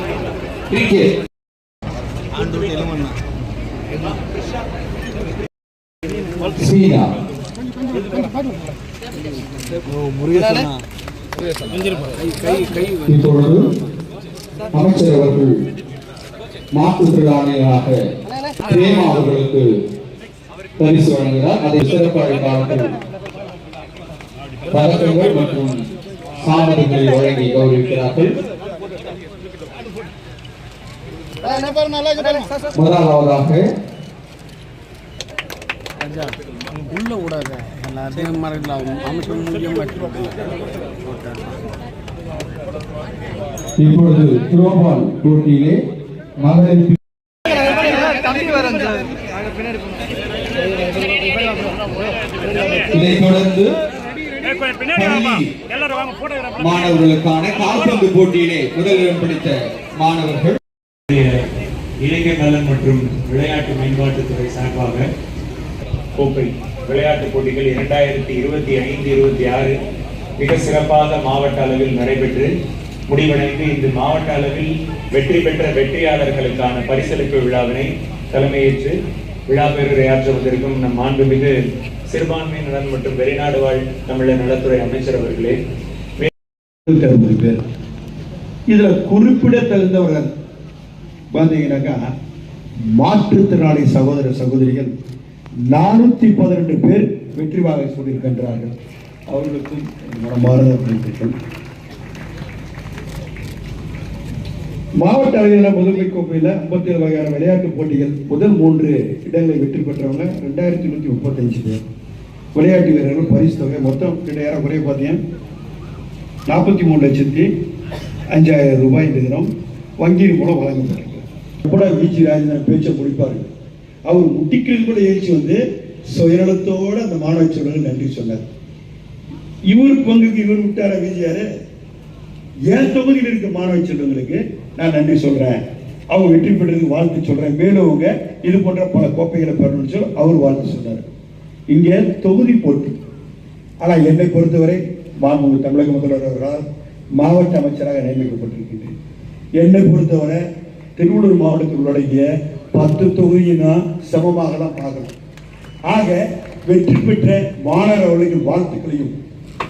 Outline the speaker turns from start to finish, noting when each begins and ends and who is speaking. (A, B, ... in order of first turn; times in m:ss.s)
0:00.7-0:01.1 A
0:06.6-0:07.1 A
0:10.3-0:10.5 B
0:13.0-0:13.7 A
0:14.7-0:15.5 A
0:16.7-0:18.0 A
0:18.7-0:19.7 A
0:20.8-0:23.0 A
0:24.7-0:25.8 A
0:26.4-0:28.4 A
0:31.6-0:32.4 B
0:32.7-0:33.6 A
0:36.9-0:40.4 B
0:43.8-0:45.8 A
0:46.4-0:47.0 A
0:52.9-0:53.7 A
0:54.9-0:55.5 A
0:56.6-1:00.6 A
1:01.1-1:01.4 C
1:02.0-1:05.0 C
1:06.2-1:09.7 C
1:10.4-1:12.5 C
1:13.1-1:18.9 C
1:19.5-1:21.5 C
1:22.1-1:25.6 C
1:26.8-1:27.6 D
1:28.7-1:30.3 D
1:31.3-1:32.0 D
1:33.0-1:34.9 D
1:35.7-1:38.7 D
1:39.3-1:41.3 D
1:45.0-1:51.8 D
1:52.5-1:55.2 D
1:56.5-1:57.5 D
1:58.3-1:59.5 D
2:00.0-2:03.5 D
2:04.1-2:08.4 D
2:09.7-2:11.4 D
2:12.7-2:15.6 D
2:16.1-2:21.0 D
2:21.7-2:23.0 D
2:23.8-2:26.6 D
2:27.2-2:28.9 D
2:29.6-2:30.4 D
2:31.0-2:35.1 D
2:35.9-2:39.2 D